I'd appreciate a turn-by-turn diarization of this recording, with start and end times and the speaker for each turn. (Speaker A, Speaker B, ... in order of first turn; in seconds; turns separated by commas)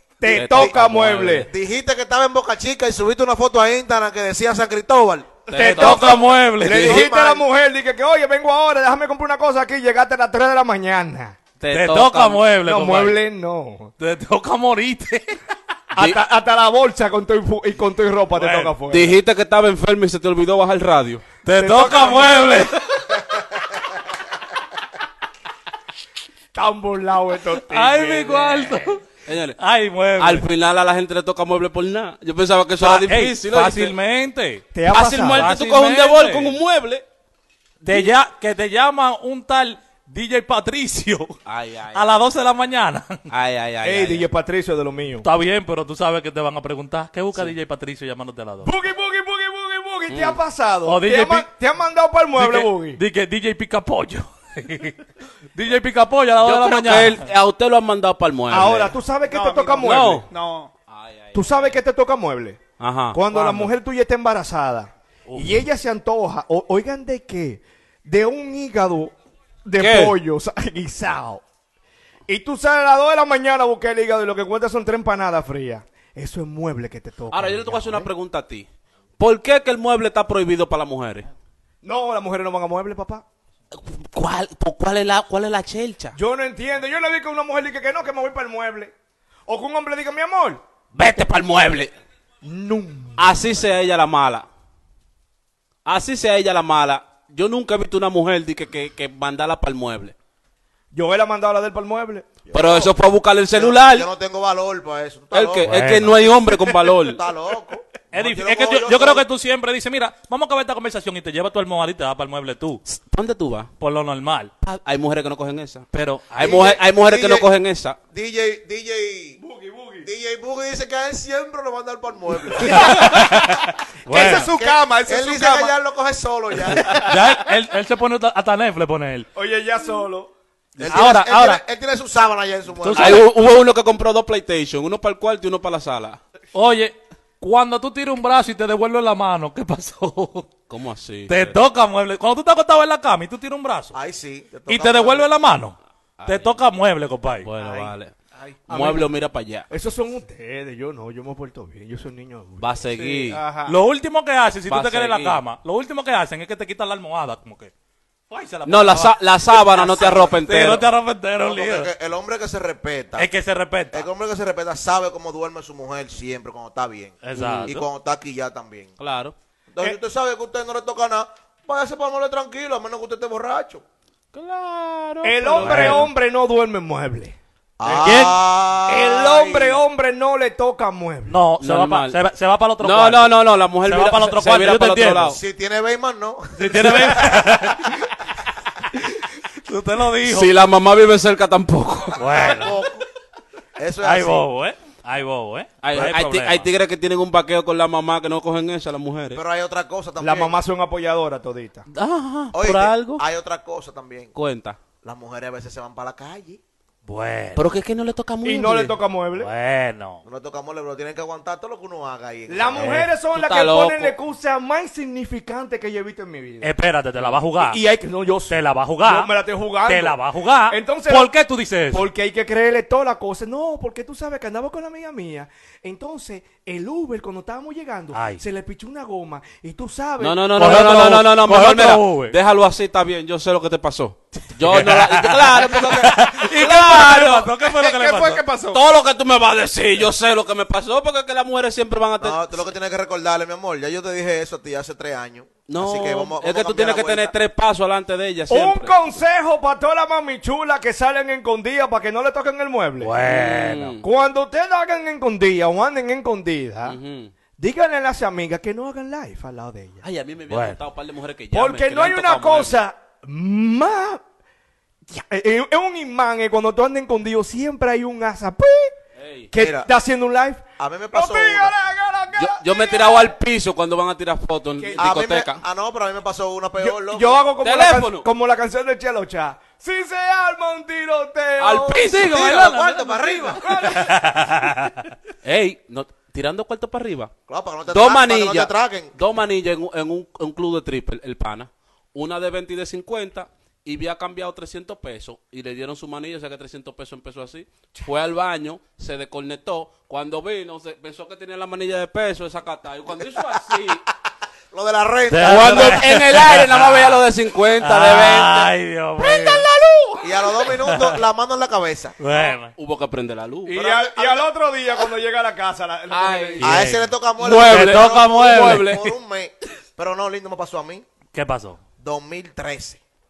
Speaker A: 0.2-1.5, Speaker B: 0.3-1.5, Speaker C: 1.5-5.4, Speaker B: 5.5-6.3, Speaker A: 5.5-11.4, Speaker D: 5.6-7.0, Speaker C: 6.6-7.5, Speaker B: 11.6-12.4, Speaker D: 11.7-13.2, Speaker A: 12.6-13.9, Speaker D: 14.0-15.4, Speaker B: 15.9-16.2, Speaker A: 15.9-19.2, Speaker D: 18.3-18.8, Speaker B: 18.9-21.3, Speaker D: 21.4-23.2, Speaker A: 21.5-22.6, Speaker A: 26.5-28.8, Speaker D: 27.6-29.0, Speaker B: 29.2-29.6, Speaker D: 29.6-30.5, Speaker B: 30.2-33.9, Speaker D: 32.8-34.7, Speaker A: 34.7-35.5, Speaker B: 34.9-37.0, Speaker D: 35.2-36.6, Speaker D: 37.8-41.4, Speaker B: 41.5-42.1, Speaker D: 41.9-43.3, Speaker B: 43.3-44.3, Speaker A: 43.8-45.3, Speaker D: 45.2-48.7, Speaker A: 48.6-53.0, Speaker B: 50.1-50.4, Speaker D: 50.9-51.5, Speaker D: 52.4-57.3, Speaker B: 56.4-59.0, Speaker A: 58.5-60.3, Speaker E: 59.3-60.7, Speaker B: 59.8-60.2, Speaker B: 60.9-61.8, Speaker A: 61.3-62.6, Speaker B: 62.8-63.7, Speaker A: 63.1-69.1, Speaker D: 65.3-65.6, Speaker A: 69.7-71.4, Speaker B: 69.8-70.2, Speaker A: 72.3-78.1, Speaker B: 77.3-78.7, Speaker B: 79.2-81.3, Speaker A: 81.8-83.2, Speaker B: 83.7-86.2, Speaker A: 86.2-88.9, Speaker A: 89.5-90.6, Speaker B: 90.9-91.9, Speaker A: 92.4-93.3, Speaker B: 93.2-94.5, Speaker B: 95.9-100.1, Speaker A: 100.9-102.3, Speaker C: 102.5-102.9, Speaker B: 102.5-104.1, Speaker C: 103.5-109.3, Speaker B: 105.3-107.2, Speaker D: 105.6-106.2, Speaker D: 108.1-112.8, Speaker B: 112.9-113.7, Speaker D: 113.8-114.5, Speaker B: 114.6-118.0, Speaker D: 115.9-116.6, Speaker C: 116.4-117.5, Speaker C: 118.1-119.4, Speaker A: 119.4-120.1, Speaker C: 120.0-123.2, Speaker D: 122.7-124.5, Speaker E: 122.7-123.5, Speaker E: 124.1-125.8, Speaker C: 124.2-127.2, Speaker E: 126.8-127.1, Speaker D: 126.9-129.3, Speaker A: 129.4-130.3, Speaker C: 130.8-133.3, Speaker D: 130.8-131.6, Speaker D: 132.8-133.3, Speaker B: 132.9-136.2, Speaker D: 136.5-140.5, Speaker B: 140.7-141.6, Speaker D: 141.3-144.0, Speaker C: 143.9-145.3, Speaker D: 144.7-147.5, Speaker B: 146.2-146.7, Speaker B: 147.4-148.1, Speaker E: 147.6-148.6, Speaker A: 148.7-149.1, Speaker B: 148.7-149.7, Speaker A: 149.7-152.8, Speaker B: 152.6-153.4, Speaker E: 152.9-153.8, Speaker D: 153.7-157.7, Speaker B: 154.7-155.4, Speaker D: 158.3-161.9, Speaker B: 158.7-160.9, Speaker C: 161.4-163.3, Speaker D: 163.2-164.1, Speaker C: 163.9-168.9, Speaker D: 167.2-167.9, Speaker B: 167.4-167.7, Speaker B: 169.0-169.3, Speaker C: 169.7-173.8, Speaker B: 174.3-176.1, Speaker A: 175.2-178.2, Speaker D: 175.6-176.1, Speaker C: 177.8-179.8, Speaker D: 178.0-178.4, Speaker A: 178.9-181.4, Speaker D: 181.3-185.4, Speaker B: 181.6-182.2, Speaker B: 182.8-185.4, Speaker C: 185.2-187.5, Speaker D: 186.6-188.0, Speaker D: 189.7-190.5, Speaker B: 190.2-192.5, Speaker D: 192.2-192.9, Speaker C: 192.4-193.1, Speaker C: 193.8-194.5, Speaker D: 194.0-196.7, Speaker B: 195.8-199.4, Speaker C: 199.3-200.6, Speaker A: 200.2-201.9, Speaker B: 201.9-203.2, Speaker C: 202.5-204.3, Speaker B: 204.3-204.8, Speaker C: 205.0-206.6, Speaker D: 207.1-207.7, Speaker B: 207.6-209.0, Speaker A: 208.4-209.5, Speaker D: 209.4-210.2, Speaker C: 210.2-213.0, Speaker A: 212.5-216.7, Speaker D: 212.8-213.1, Speaker B: 212.8-214.2, Speaker D: 216.6-217.8, Speaker A: 217.6-221.3, Speaker D: 218.5-219.3, Speaker D: 219.8-222.1, Speaker A: 221.9-230.8, Speaker D: 228.1-228.4, Speaker B: 230.2-237.5, Speaker D: 230.6-232.4, Speaker D: 234.6-238.4, Speaker C: 235.6-236.2, Speaker E: 236.6-238.8, Speaker B: 238.7-242.5, Speaker C: 242.2-247.3, Speaker B: 245.7-249.2, Speaker A: 248.5-253.1, Speaker D: 253.0-254.0, Speaker B: 253.2-254.1, Speaker A: 254.0-257.0, Speaker B: 256.9-257.3, Speaker A: 257.6-260.0, Speaker B: 260.0-262.8, Speaker D: 260.5-260.8, Speaker A: 261.5-264.2, Speaker A: 265.1-268.9, Speaker B: 269.2-269.5, Speaker A: 269.5-273.3, Speaker C: 269.5-269.9, Speaker C: 270.8-271.8, Speaker B: 272.4-275.6, Speaker A: 274.8-275.2, Speaker C: 275.0-277.4, Speaker A: 276.8-282.1, Speaker B: 277.6-278.3, Speaker B: 281.6-282.7, Speaker D: 282.0-285.1, Speaker C: 282.1-283.9, Speaker A: 283.4-284.2, Speaker B: 285.4-287.3, Speaker C: 287.5-289.1, Speaker B: 287.9-304.1, Speaker C: 304.7-306.2, Speaker D: 305.3-307.2, Speaker B: 305.4-308.7, Speaker D: 307.8-309.7, Speaker C: 310.2-312.2, Speaker D: 310.8-311.2, Speaker D: 312.2-312.8, Speaker B: 312.8-313.8, Speaker A: 313.7-316.8, Speaker C: 313.7-314.5, Speaker B: 316.1-316.9, Speaker D: 316.6-319.0, Speaker C: 316.6-321.1, Speaker B: 317.4-319.1, Speaker D: 321.3-321.8, Speaker C: 322.0-323.0